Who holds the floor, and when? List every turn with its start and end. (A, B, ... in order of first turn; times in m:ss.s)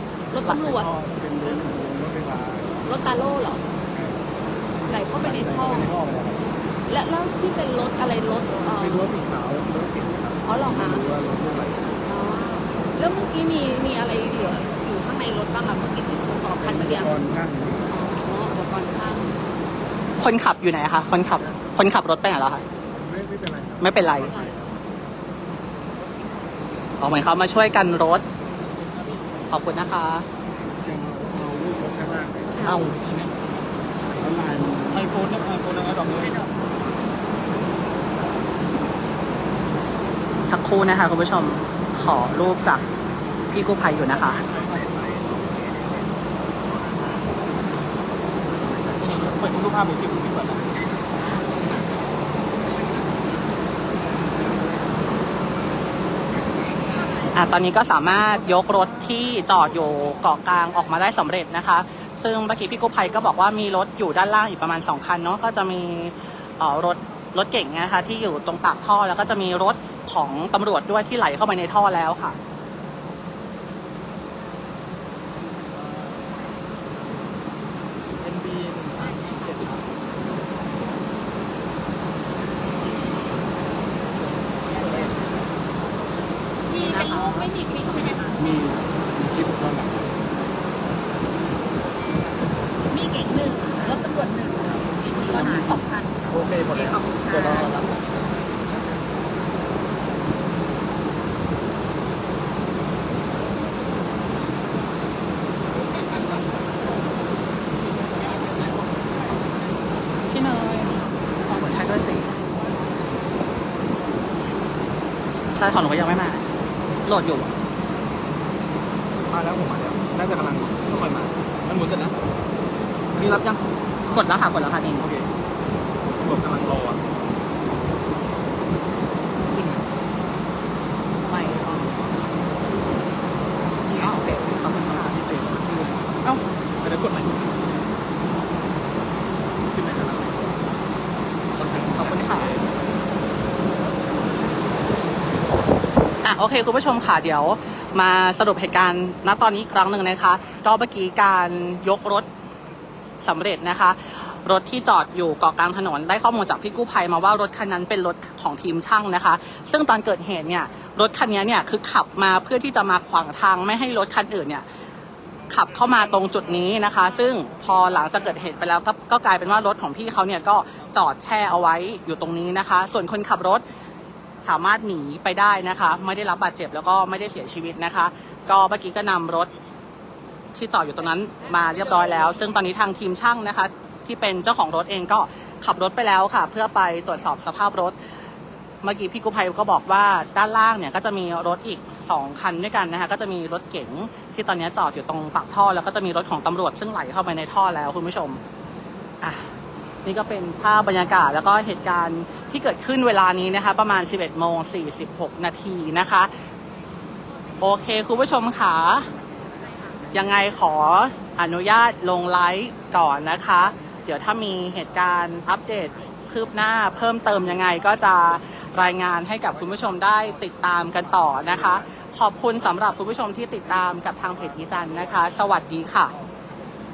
0:00.3-0:00.9 A
0:00.4-0:02.8 B
0:02.8-0:03.6 A
0:03.9-0:04.3 B
0:04.9-0:05.9 A
0:05.1-0:06.4 B
0:06.9-0:09.0 A
0:08.7-0:12.0 B
0:10.4-0:11.0 A
0:12.0-0:17.1 A
0:16.6-0:17.9 B
0:17.9-0:19.3 A
0:20.2-0:22.6 C
0:23.0-0:24.8 B
0:23.8-0:24.3 C
0:27.0-0:28.2 C
0:29.5-0:30.2 C
0:30.8-0:32.9 B
0:32.6-0:33.0 C
0:34.2-0:35.1 B
0:34.9-0:36.5 D
0:40.5-0:42.8 C
0:43.5-0:44.4 C
0:48.7-0:50.8 D
0:51.5-0:51.9 D
0:57.3-1:12.4 C
1:18.2-1:19.8 D
1:24.6-1:25.2 D
1:26.7-1:28.4 A
1:26.8-1:27.5 C
1:28.4-1:30.1 B
1:32.9-1:36.1 A
1:35.3-1:35.7 B
1:36.8-1:37.7 A
1:50.3-1:52.3 C
1:55.5-1:56.4 C
1:57.0-1:57.5 C
1:59.3-2:02.1 D
2:03.1-2:04.3 D
2:04.1-2:05.1 C
2:05.0-2:05.3 D
2:06.2-2:07.0 D
2:09.5-2:09.8 D
2:11.3-2:12.2 D
2:13.8-2:17.5 D
2:14.0-2:15.2 C
2:19.7-2:20.5 D
2:21.5-2:22.7 D
2:21.6-2:22.5 C
2:26.2-2:32.3 C
2:33.2-2:44.6 C
2:45.5-2:53.6 C
2:54.4-2:59.5 C
3:00.5-3:07.9 C
3:08.8-3:18.4 C
3:20.0-3:26.3 C
3:27.6-3:29.1 C
3:30.1-3:46.1 C